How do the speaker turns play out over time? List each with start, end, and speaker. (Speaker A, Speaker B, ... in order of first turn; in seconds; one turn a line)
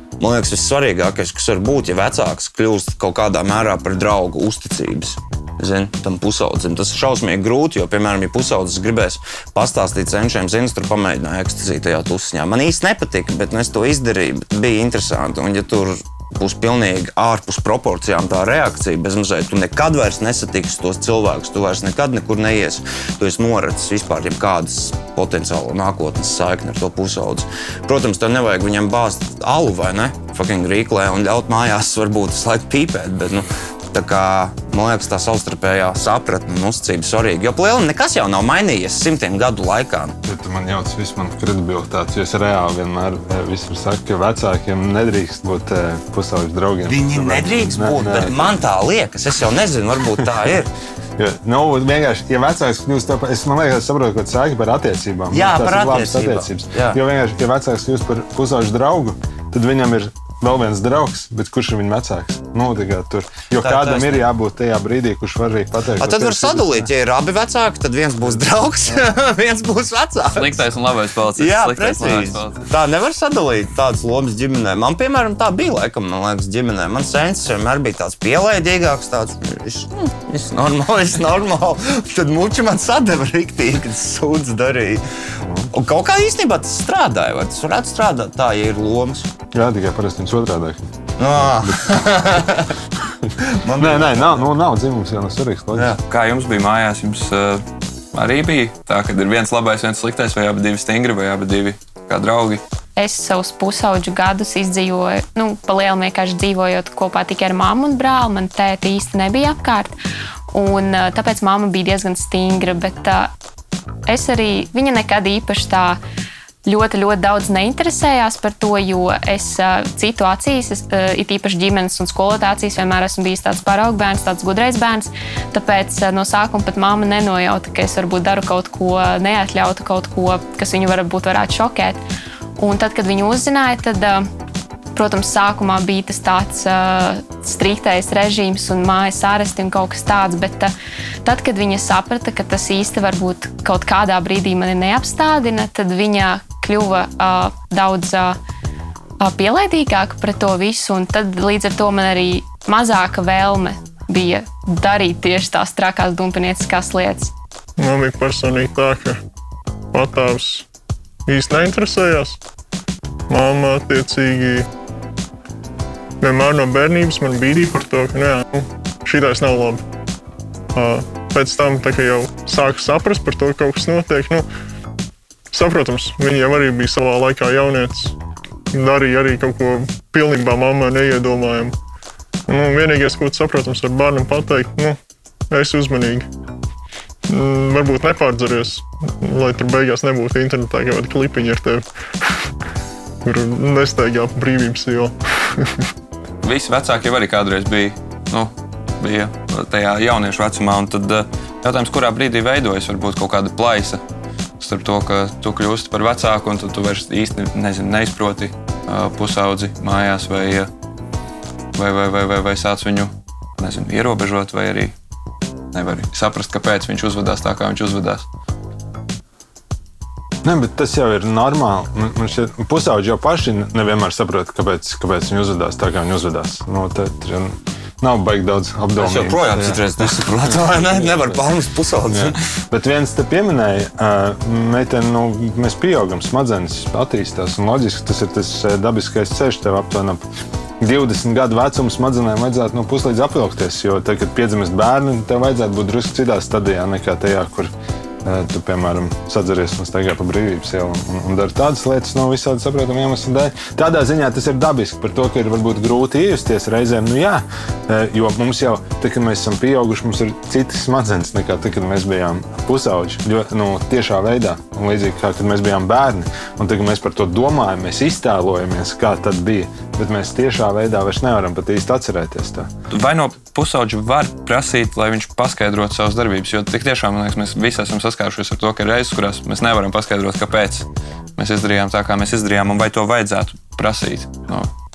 Speaker A: 0.2-40.1
Speaker B: 40.2-48.6
Speaker A: 46.8-50.7
Speaker B: 51.2-66.9
Speaker A: 55.3-57.0
Speaker A: 63.6-64.2
Speaker A: 66.0-70.6
Speaker C: 70.3-72.6
Speaker A: 71.4-85.0
Speaker B: 85.4-85.7
Speaker A: 85.7-89.3
Speaker B: 89.5-92.0
Speaker A: 91.2-92.8
Speaker A: 93.4-94.5
Speaker B: 93.8-96.0
Speaker C: 96.0-102.6
Speaker D: 103.0-109.9
Speaker D: 110.5-113.3
Speaker D: 114.1-116.0
Speaker D: 116.6-132.0
Speaker D: 132.6-134.2
Speaker D: 134.9-140.7
Speaker D: 141.2-148.4
Speaker D: 149.2-157.3
Speaker E: 157.8-159.2
Speaker E: 159.9-160.7
Speaker E: 161.2-162.4
Speaker E: 163.3-164.7
Speaker E: 166.2-169.8
Speaker E: 170.7-174.5
Speaker E: 175.5-178.2
Speaker E: 178.7-181.7
Speaker E: 182.5-185.0
Speaker E: 185.5-186.3
Speaker E: 187.3-192.5
Speaker E: 193.2-195.9
Speaker C: 196.4-204.0
Speaker C: 204.6-210.7
Speaker C: 211.7-214.9
Speaker C: 215.7-218.2
Speaker B: 220.4-231.4
Speaker A: 229.0-232.4
Speaker B: 232.1-240.2
Speaker B: 240.8-247.7
Speaker B: 248.2-272.7
Speaker C: 272.9-280.9
Speaker C: 281.4-284.7